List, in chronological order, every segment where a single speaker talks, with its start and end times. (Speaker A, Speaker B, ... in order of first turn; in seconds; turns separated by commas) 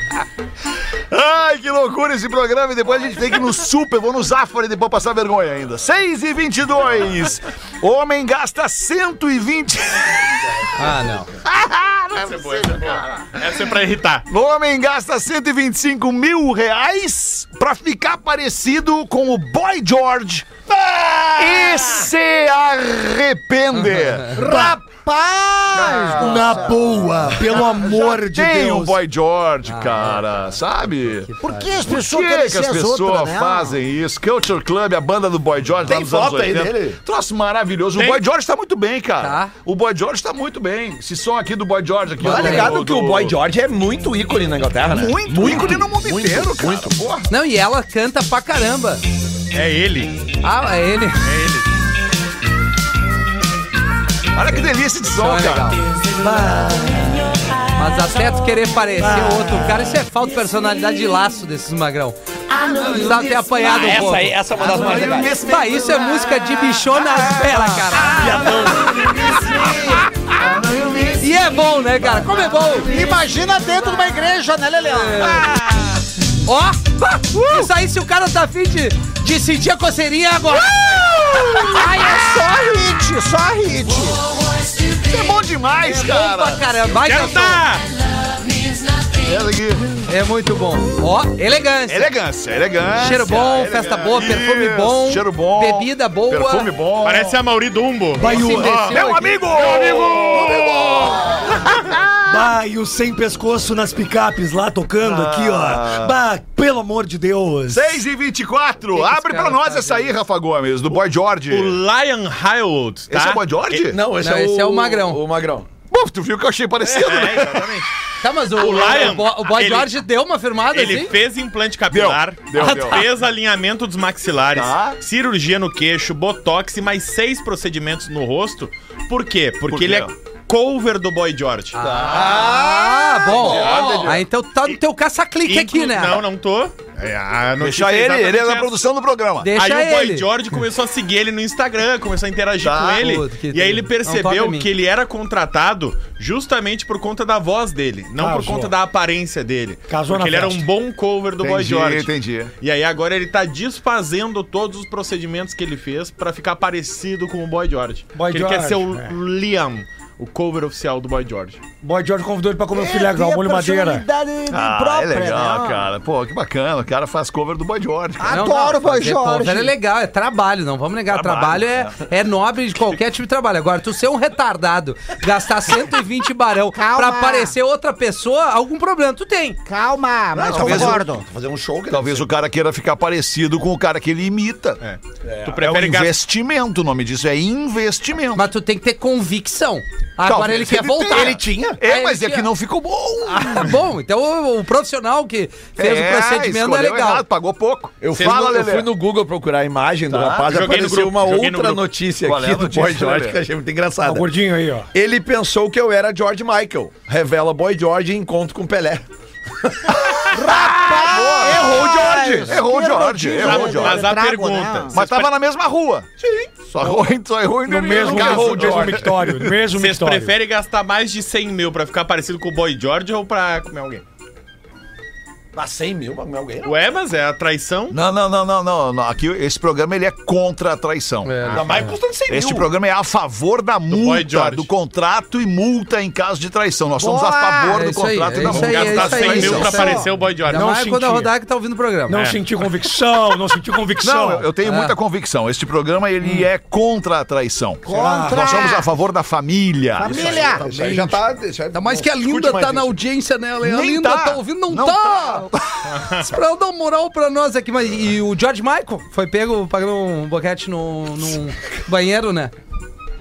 Speaker A: 1.1-13.7, Speaker B: 10.7-11.3, Speaker C: 12.2-14.2, Speaker A: 14.3-20.5, Speaker D: 20.9-21.3, Speaker A: 21.3-24.6, Speaker B: 23.7-24.3, Speaker E: 24.3-27.1, Speaker A: 25.7-31.3, Speaker F: 26.1-29.0, Speaker B: 29.6-31.9, Speaker E: 31.4-33.8, Speaker A: 31.9-43.4, Speaker D: 35.8-37.0, Speaker C: 38.0-38.2, Speaker B: 39.2-39.5, Speaker D: 42.2-47.0, Speaker B: 42.2-42.8, Speaker A: 44.9-47.3, Speaker B: 47.3-49.0, Speaker C: 49.5-50.3, Speaker B: 50.4-51.3, Speaker C: 51.2-51.7, Speaker A: 54.3-55.8, Speaker B: 55.0-55.8, Speaker F: 56.1-57.5, Speaker B: 57.7-62.1, Speaker F: 59.0-60.0, Speaker A: 62.5-71.2, Speaker B: 62.7-64.4, Speaker D: 63.6-65.4, Speaker E: 64.8-66.2, Speaker B: 65.3-69.2, Speaker E: 68.0-71.2, Speaker D: 68.2-68.9, Speaker B: 71.2-72.9, Speaker A: 71.9-73.0, Speaker E: 72.2-75.9, Speaker B: 74.9-75.4, Speaker A: 75.5-75.8, Speaker B: 76.4-80.8, Speaker E: 77.3-77.6, Speaker A: 80.8-82.2, Speaker E: 80.8-84.2, Speaker A: 84.9-86.8, Speaker B: 85.8-87.7, Speaker C: 87.0-87.8, Speaker A: 89.1-89.8, Speaker B: 90.1-92.1, Speaker A: 91.9-97.4, Speaker B: 93.0-96.7, Speaker C: 97.0-99.0, Speaker B: 98.2-99.4, Speaker F: 98.2-98.9, Speaker A: 98.9-102.0, Speaker C: 99.5-100.9, Speaker F: 101.8-108.0, Speaker A: 105.0-106.2, Speaker A: 107.7-111.8, Speaker B: 108.9-110.1, Speaker C: 111.5-113.8, Speaker A: 113.1-114.0, Speaker D: 113.8-115.7, Speaker B: 114.2-115.2, Speaker A: 115.9-117.9, Speaker C: 116.9-117.9, Speaker B: 118.2-121.1, Speaker C: 118.5-119.9, Speaker C: 120.7-131.8, Speaker A: 121.9-123.0, Speaker B: 122.6-123.0, Speaker A: 124.5-125.0, Speaker A: 129.7-130.1, Speaker B: 131.7-136.2, Speaker A: 131.8-134.2, Speaker E: 132.2-132.8, Speaker D: 133.4-134.0, Speaker C: 133.4-134.2, Speaker C: 135.5-138.7, Speaker A: 137.6-139.5, Speaker B: 139.4-140.3, Speaker C: 139.6-161.6, Speaker A: 142.6-143.1, Speaker B: 143.0-144.7, Speaker F: 148.2-148.7, Speaker F: 149.9-150.6, Speaker A: 151.4-152.5, Speaker F: 158.1-159.1, Speaker F: 161.8-164.0, Speaker E: 162.7-165.9, Speaker A: 164.5-168.4, Speaker E: 168.2-169.7, Speaker B: 168.3-179.6, Speaker A: 171.1-172.0, Speaker E: 176.7-177.5, Speaker E: 179.7-181.2, Speaker D: 180.3-182.3, Speaker A: 180.5-181.0, Speaker A: 181.9-184.8, Speaker C: 184.8-186.2, Speaker D: 185.2-185.6, Speaker A: 185.6-188.5, Speaker B: 188.3-192.5, Speaker A: 190.2-193.8, Speaker D: 190.3-191.8, Speaker B: 193.2-197.2, Speaker A: 195.8-198.9, Speaker D: 198.0-204.3, Speaker C: 198.1-198.5, Speaker A: 200.1-200.6, Speaker C: 200.5-201.9, Speaker A: 202.2-203.4, Speaker F: 204.0-204.9, Speaker D: 204.9-209.1, Speaker D: 209.6-212.6, Speaker A: 210.3-214.1, Speaker E: 210.3-215.0, Speaker C: 213.3-215.3, Speaker A: 214.9-216.1, Speaker D: 216.2-217.1, Speaker A: 216.7-219.5, Speaker F: 217.7-220.3, Speaker D: 217.9-219.1, Speaker C: 219.7-224.0, Speaker D: 225.5-226.8, Speaker C: 226.6-228.0, Speaker A: 227.9-231.5, Speaker B: 231.2-231.9, Speaker C: 231.4-231.9, Speaker D: 231.5-232.7, Speaker A: 232.3-239.9, Speaker C: 233.9-234.7, Speaker E: 237.0-237.8, Speaker B: 237.7-242.2, Speaker C: 238.4-240.7, Speaker E: 239.3-240.1, Speaker F: 240.4-241.3, Speaker F: 242.1-244.5, Speaker C: 242.1-242.4, Speaker A: 244.0-250.6, Speaker B: 244.6-244.9, Speaker E: 247.8-248.9, Speaker F: 247.9-248.5, Speaker E: 250.0-250.7, Speaker D: 250.0-252.9, Speaker B: 251.7-255.5, Speaker A: 253.6-255.9, Speaker C: 255.9-256.2, Speaker B: 256.1-262.5